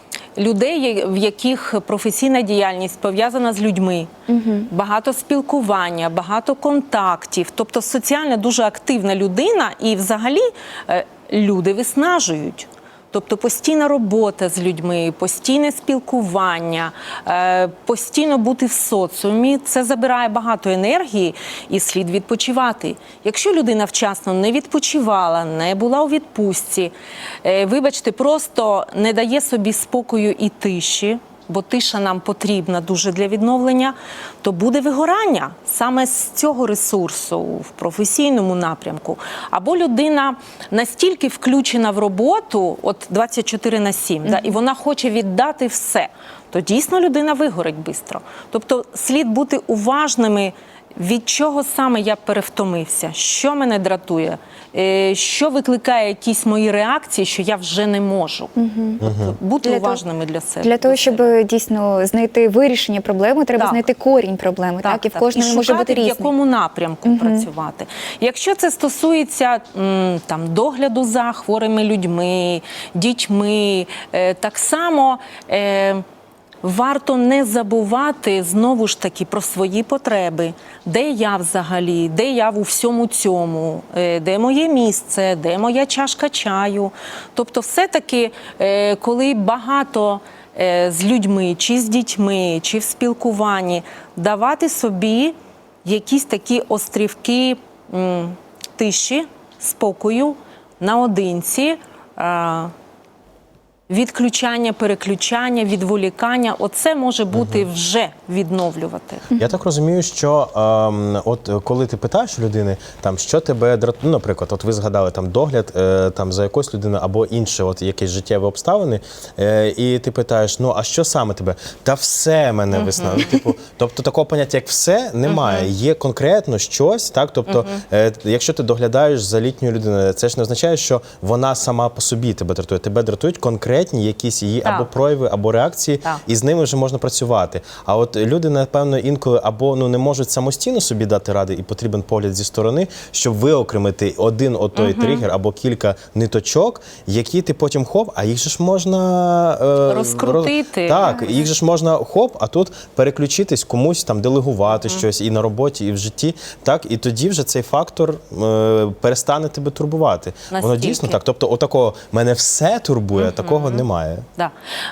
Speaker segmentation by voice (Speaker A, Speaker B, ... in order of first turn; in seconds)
Speaker A: 0.4-4.1, 4.7-61.4, 63.6-63.9, 64.8-76.0, 76.6-102.7, 103.9-109.3, 122.7-123.4, 125.3-125.7, 127.5-127.8, 144.8-145.3, 149.9-151.3, 160.5-161.2, 163.2-163.8
Speaker B: 4.3-4.7, 44.3-44.5, 58.6-59.0, 59.6-60.0, 60.6-66.3, 67.0-67.5, 151.0-151.4
Speaker C: 59.0-59.4, 107.3-107.7, 109.4-164.3